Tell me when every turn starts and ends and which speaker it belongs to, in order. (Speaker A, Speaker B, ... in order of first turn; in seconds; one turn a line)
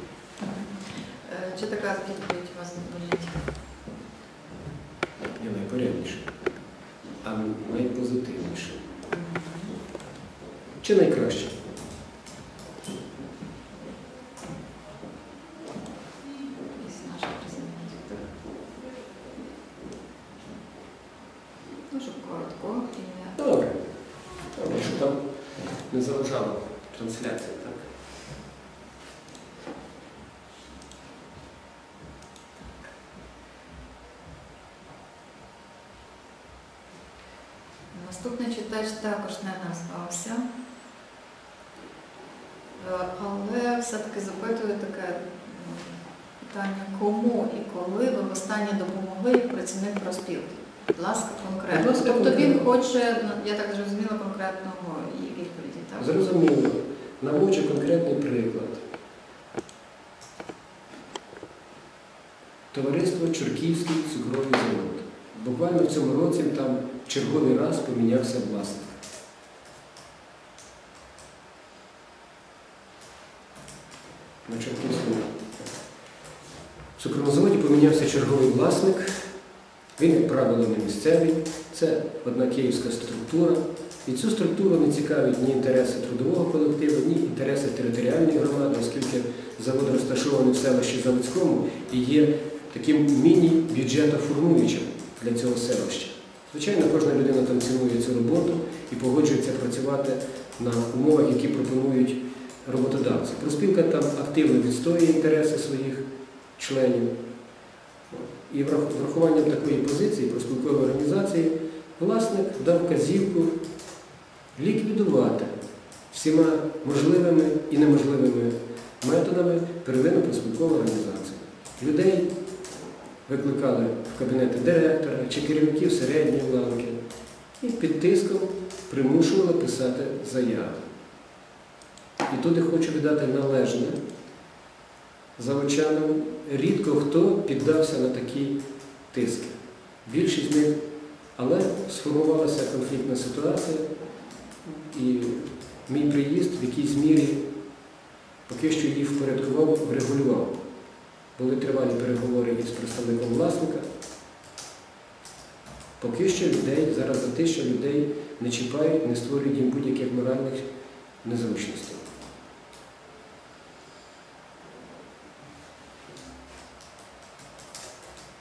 Speaker A: 0.4-3.4
Speaker B: 5.4-6.3
Speaker B: 7.2-8.8
Speaker A: 9.1-9.8
Speaker B: 10.8-11.6
Speaker A: 16.7-18.3
Speaker A: 21.9-23.4
Speaker B: 23.4-23.8
Speaker B: 24.5-25.2
Speaker B: 25.9-27.9
Speaker A: 37.9-40.5
Speaker A: 42.8-56.1
Speaker B: 51.7-52.7
Speaker B: 56.0-58.8
Speaker B: 62.7-69.0
Speaker B: 74.4-75.3
Speaker B: 77.0-79.1
Speaker B: 80.0-106.0
Speaker B: 106.6-107.1
Speaker B: 108.1-113.5
Speaker B: 114.5-115.5
Speaker B: 116.1-122.3
Speaker B: 123.3-127.0
Speaker B: 127.6-130.8
Speaker B: 132.3-134.0
Speaker B: 135.4-138.6
Speaker B: 139.1-140.8
Speaker B: 141.4-143.9
Speaker B: 144.6-147.4
Speaker B: 148.5-150.5
Speaker B: 151.4-153.8
Speaker B: 156.0-160.6
Speaker B: 161.2-162.0